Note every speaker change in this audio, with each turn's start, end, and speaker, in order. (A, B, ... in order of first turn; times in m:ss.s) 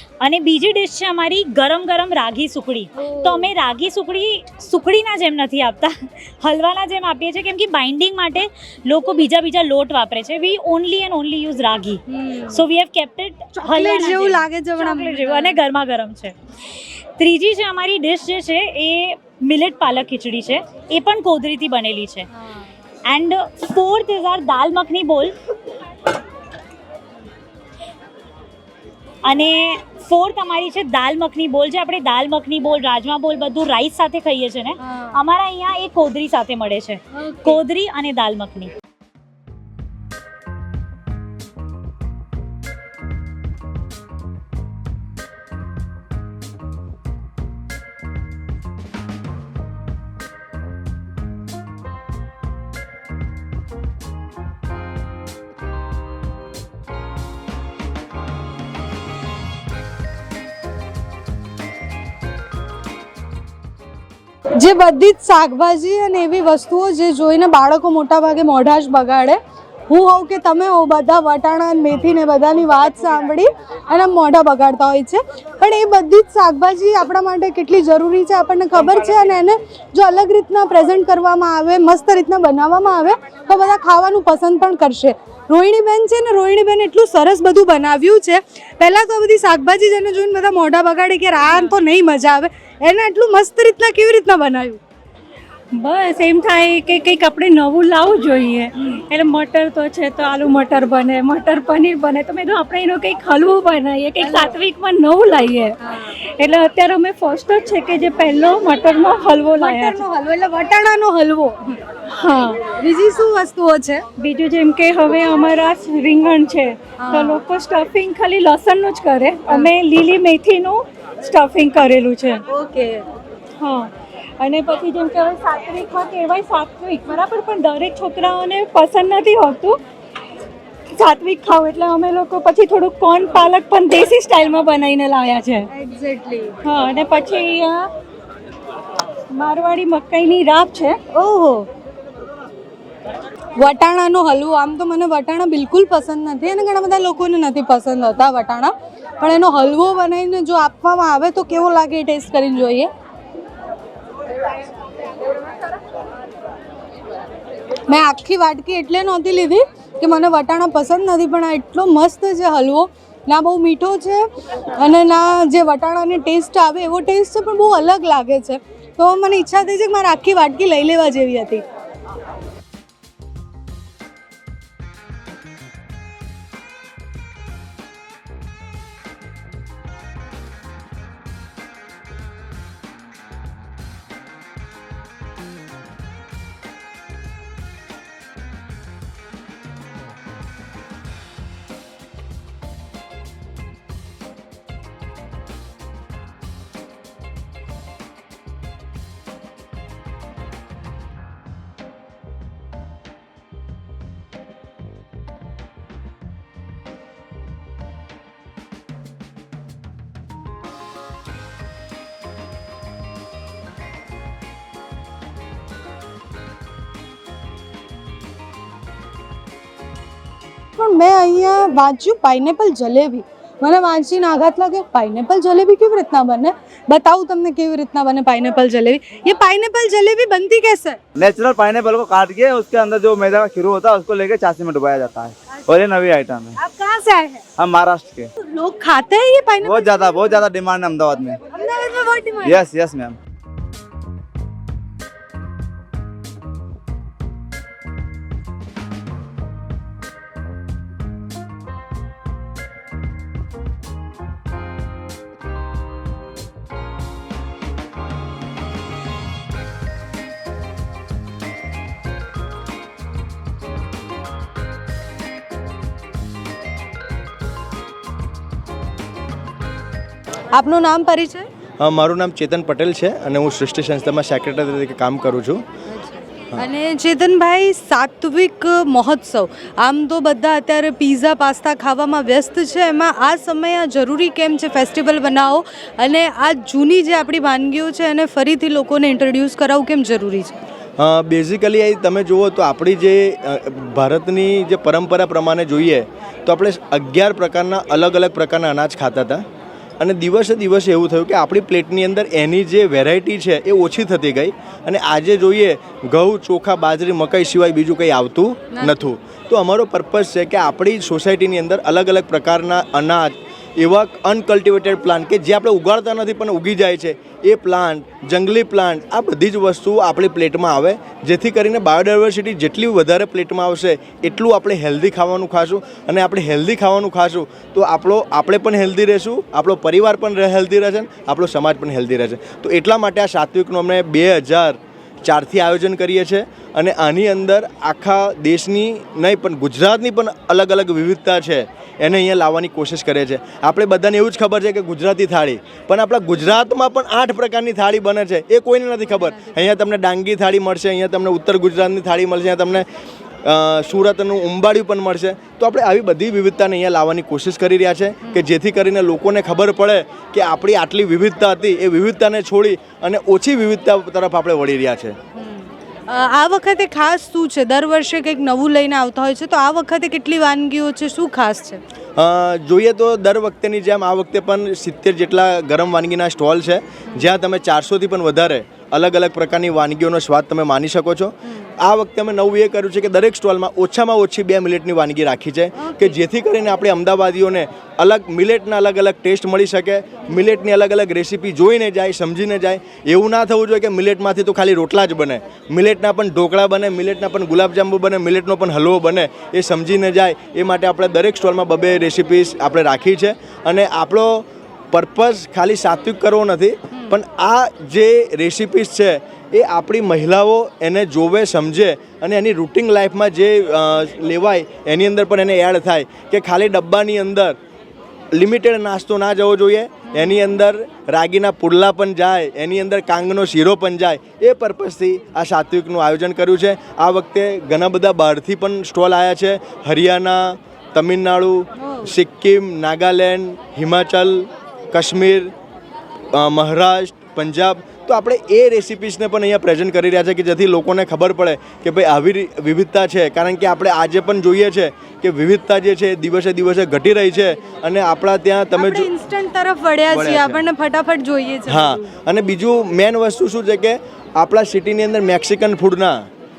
0:00.2-0:22.3 A
0:03.0-0:03.5 B
0:12.1-0:12.6 B
0:13.6-0:15.6 B
0:23.0-0:25.4 A
0:29.2-0:38.7 A
0:34.8-0:35.2 B
0:37.1-0:37.6 B
1:04.6-1:34.8 B
1:35.7-1:50.0 C
1:44.2-1:44.6 B
1:49.6-1:51.8 B
1:52.1-1:52.6 C
1:52.6-1:54.0 B
1:54.2-2:02.4 C
1:57.0-1:57.4 B
2:02.5-2:03.0 B
2:03.6-2:09.8 C
2:11.0-2:15.7 C
2:15.7-2:16.6 B
2:16.6-2:17.9 C
2:19.3-2:21.0 C
2:21.1-2:21.7 B
2:23.6-2:32.9 B
2:37.9-2:51.6 B
3:40.8-3:51.0 B
3:51.2-3:56.5 D
3:56.6-3:57.4 B
3:57.6-3:58.3 D
3:58.4-4:00.4 B
3:59.6-4:01.4 D
4:01.5-4:02.6 B
4:02.4-4:03.2 D
4:30.5-4:31.5 B
4:31.8-4:35.6 E
4:35.9-4:50.6 B
4:51.0-4:59.4 E
5:00.0-5:52.8 E
5:08.7-5:09.0 B
5:49.1-5:49.7 B
5:53.4-6:05.2 E
6:05.4-6:11.8 B
6:12.2-6:57.6 E
6:25.8-6:26.2 B
6:58.3-7:15.5 E
7:11.8-7:12.1 B
7:16.3-7:29.1 E
7:28.8-7:32.1 B
7:30.1-7:30.6 E
7:31.7-7:36.2 E